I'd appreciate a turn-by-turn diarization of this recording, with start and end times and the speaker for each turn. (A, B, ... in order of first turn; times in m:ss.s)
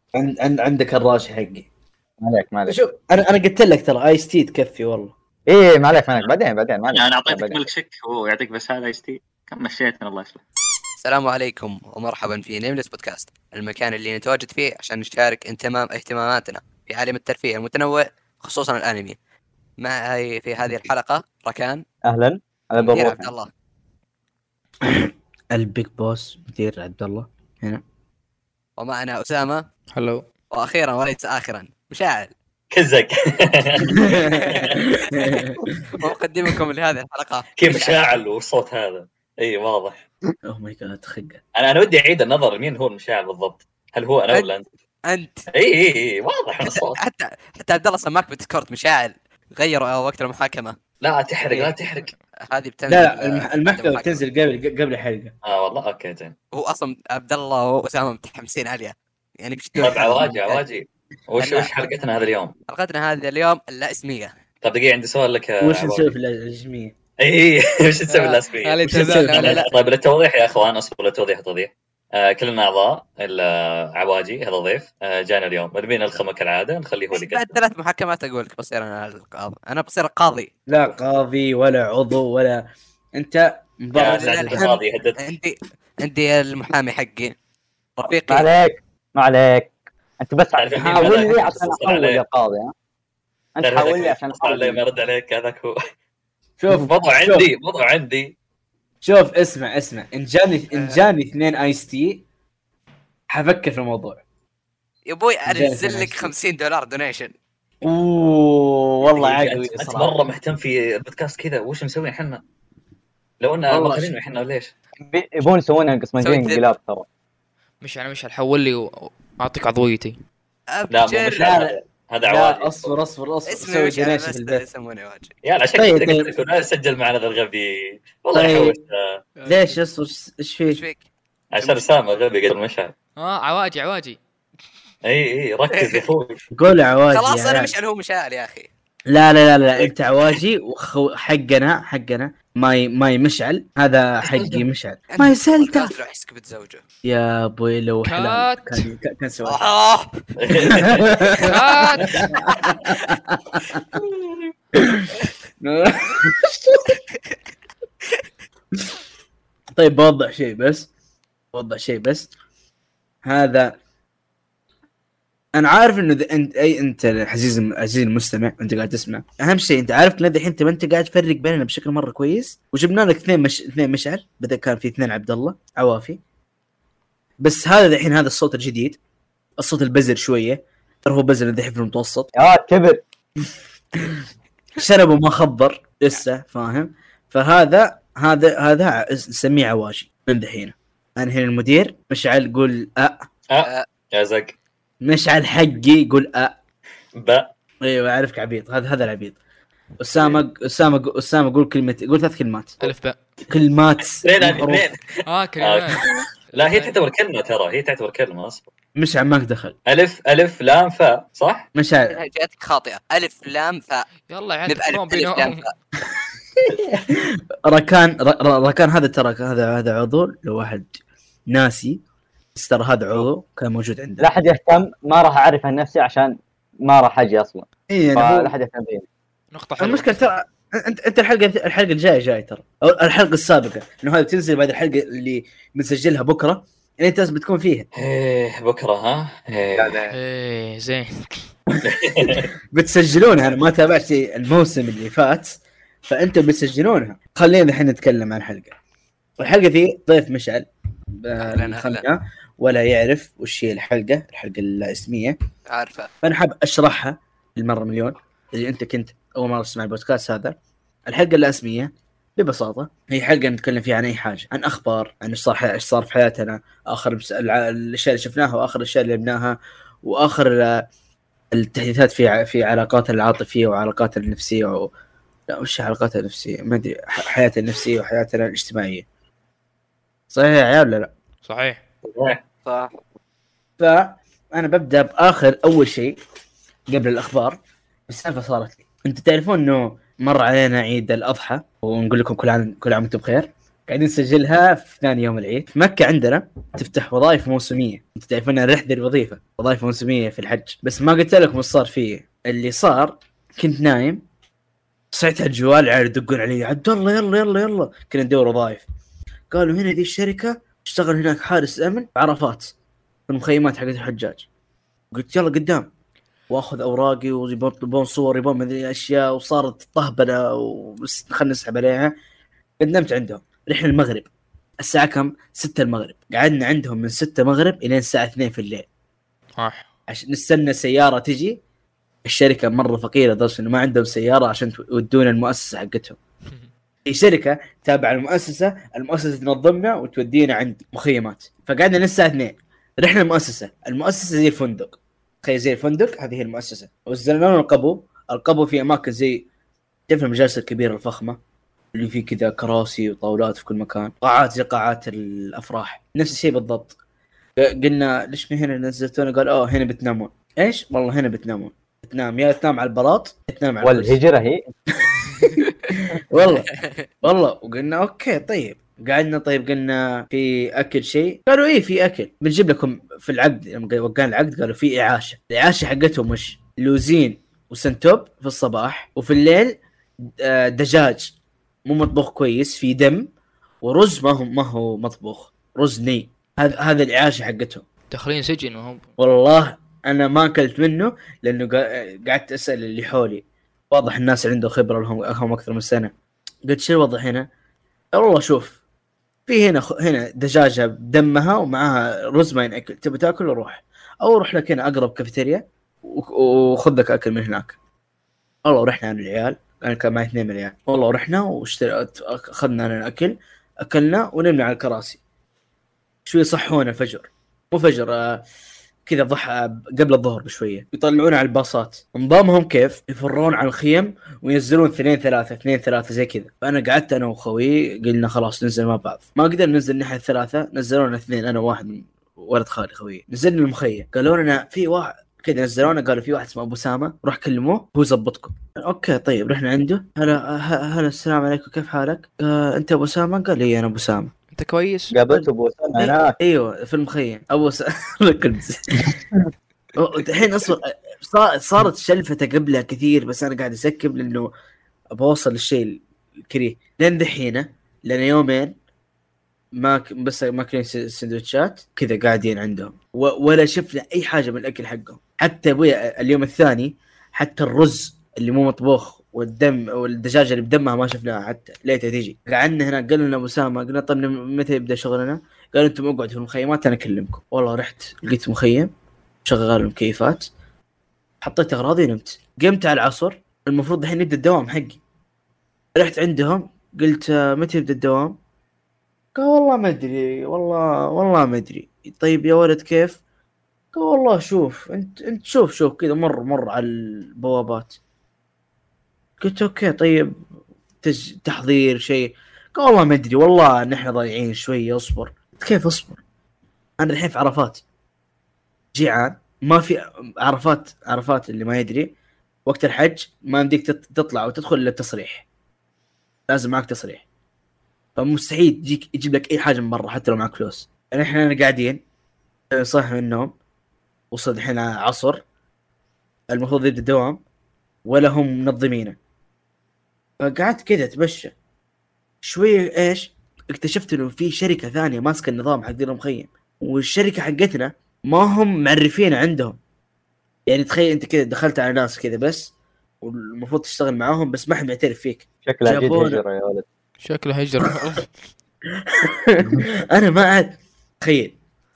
0:00.1-0:01.7 A
0:02.2-0:02.8 B
0:02.7-0:05.1 A
0:05.5-0:07.6 B
0:06.0-0:06.3 C
0:06.9-0:10.4 C
0:11.0-0:19.2 D
0:19.8-0:21.8 D
0:22.0-0:23.3 B
0:22.8-0:23.5 D
0:24.8-0:27.8 A
0:28.8-0:29.6 D
0:29.9-0:30.2 E
0:30.5-0:32.3 D
0:32.7-0:34.9 C
0:33.9-0:34.4 A
0:34.0-0:38.1 D
0:35.1-0:35.5 A
0:37.6-0:40.0 C
0:40.4-0:41.4 A
0:41.6-0:44.7 C
0:45.1-0:45.4 D
0:45.5-0:47.0 C
0:46.6-0:50.8 D
0:51.0-0:52.1 C
0:52.5-0:54.2 D
0:52.9-0:55.3 A
0:55.4-0:56.3 C
0:56.5-1:00.6 D
0:59.8-1:02.5 C
1:01.4-1:01.7 E
1:02.7-1:04.3 D
1:04.6-1:06.1 C
1:05.6-1:06.9 A
1:07.2-1:17.5 C
1:08.1-1:09.6 E
1:08.9-1:09.6 A
1:17.1-1:20.5 D
1:20.7-1:22.6 A
1:23.2-1:24.8 A
1:23.9-1:25.2 C
1:24.0-1:27.3 D
1:28.0-1:28.5 D
1:28.3-1:32.7 B
1:30.6-1:32.2 C
1:30.8-1:31.4 A
1:33.6-1:34.8 B
1:33.6-1:35.8 C
1:36.6-1:37.5 A
1:36.7-1:38.3 C
1:39.0-1:42.2 A
1:40.7-1:41.0 D
1:43.3-1:44.2 A
1:45.1-1:47.3 D
1:45.4-1:46.3 A
1:47.8-1:50.2 A
1:49.0-1:52.4 C
1:53.4-1:54.7 C
1:53.7-1:54.1 A
1:55.0-1:57.0 B
1:56.2-1:56.7 D
1:57.8-2:00.2 E
2:00.7-2:01.6 D
2:00.9-2:02.9 C
2:01.4-2:04.6 A
2:03.5-2:05.3 D
2:05.4-2:09.2 C
2:05.8-2:06.3 A
2:08.3-2:08.8 A
2:09.4-2:10.8 A
2:10.7-2:11.1 D
2:11.5-2:12.9 C
2:13.2-2:14.2 E
2:15.0-2:16.4 C
2:15.7-2:16.0 D
2:16.5-2:17.7 A
2:17.1-2:18.7 D
2:19.1-2:25.9 A
2:19.8-2:20.4 D
2:24.3-2:24.6 C
2:25.1-2:26.8 D
2:27.0-2:29.6 A
2:28.0-2:28.8 E
2:29.4-2:30.2 D
2:30.4-2:31.1 C
2:30.7-2:31.5 A
2:31.4-2:32.2 D
2:31.4-2:32.2 E
2:32.0-2:33.8 A
2:34.8-2:35.1 A
2:35.6-2:37.0 A
2:37.1-2:37.4 D
2:39.7-2:40.9 A
2:41.5-2:42.3 A
2:43.2-2:43.8 A
2:45.6-2:56.2 A
2:57.4-2:59.0 A
2:59.6-3:02.3 A
3:02.4-3:03.0 B
3:04.8-3:13.2 A
3:13.5-3:14.5 C
3:15.0-3:16.6 A
3:17.2-3:17.5 C
3:17.8-3:19.4 A
3:20.0-3:22.9 A
3:22.8-3:23.2 E
3:23.5-3:24.8 A
3:24.2-3:28.7 C
3:25.3-3:27.0 E
3:29.0-3:29.8 A
3:29.9-3:31.7 C
3:31.8-3:32.2 A
3:32.1-3:34.1 D
3:34.3-3:35.7 E
3:34.7-3:35.7 D
3:36.7-3:41.0 A
3:41.5-3:42.0 A
3:42.5-3:44.3 A
3:44.2-3:49.0 B
3:47.9-3:48.5 A
3:49.5-3:50.3 E
3:49.8-3:57.8 A
3:58.0-4:00.1 C
3:59.8-4:00.1 B
4:00.1-4:01.5 E
4:01.8-4:02.5 C
4:02.2-4:08.8 A
4:09.4-4:15.4 A
4:11.4-4:12.1 D
4:15.7-4:16.1 D
4:16.2-4:20.6 A
4:21.1-4:30.8 A
4:31.5-4:34.9 A
4:35.5-4:39.0 A
4:40.3-4:41.1 A
4:41.4-4:41.8 E
4:42.0-4:42.4 C
4:42.6-4:43.0 D
4:43.8-4:46.2 A
4:46.9-5:04.2 A
5:05.1-5:08.8 A
5:09.5-5:12.7 A
5:13.3-5:14.4 A
5:15.1-5:15.9 A
5:16.5-5:22.1 A
5:22.8-5:28.9 A
5:29.6-5:29.8 E
5:30.1-5:31.6 A
5:32.2-5:36.2 A
5:37.0-5:49.5 A
5:50.1-5:51.4 A
5:51.9-5:57.0 A
5:57.6-6:04.2 A
6:03.8-6:04.6 B
6:05.1-6:05.6 A
6:06.3-6:06.7 A
6:06.4-6:07.1 D
6:07.2-6:19.8 A
6:20.4-6:21.3 A
6:21.9-6:23.2 A
6:23.8-6:27.8 A
6:28.1-6:29.0 E
6:29.2-6:36.1 A
6:36.7-6:37.5 A
6:38.1-6:38.8 A
6:39.5-6:47.7 A
6:48.6-6:55.2 A
6:56.2-6:58.4 A
6:59.0-7:24.3 A
7:24.5-7:25.1 E
7:25.1-7:26.3 B
7:25.3-7:29.2 A
7:30.0-7:34.5 A
7:35.1-7:38.7 A
7:39.8-7:58.9 A
7:59.4-8:00.5 A
8:01.4-8:05.0 A
8:06.0-8:08.3 A
8:09.3-8:13.2 A
8:13.9-8:18.0 A
8:19.4-8:20.3 A
8:21.0-8:26.2 A
8:27.0-8:27.8 A
8:28.9-8:32.1 A
8:32.6-8:35.4 A
8:36.5-8:37.2 A
8:38.2-8:42.0 A
8:42.7-8:43.5 A
8:44.3-8:45.4 A
8:46.5-8:47.4 A
8:48.0-8:49.2 A
8:50.4-8:51.5 A
8:52.4-8:59.8 A
9:00.7-9:06.4 A
9:05.6-9:06.8 B
9:07.2-9:08.4 E
9:09.1-9:11.6 A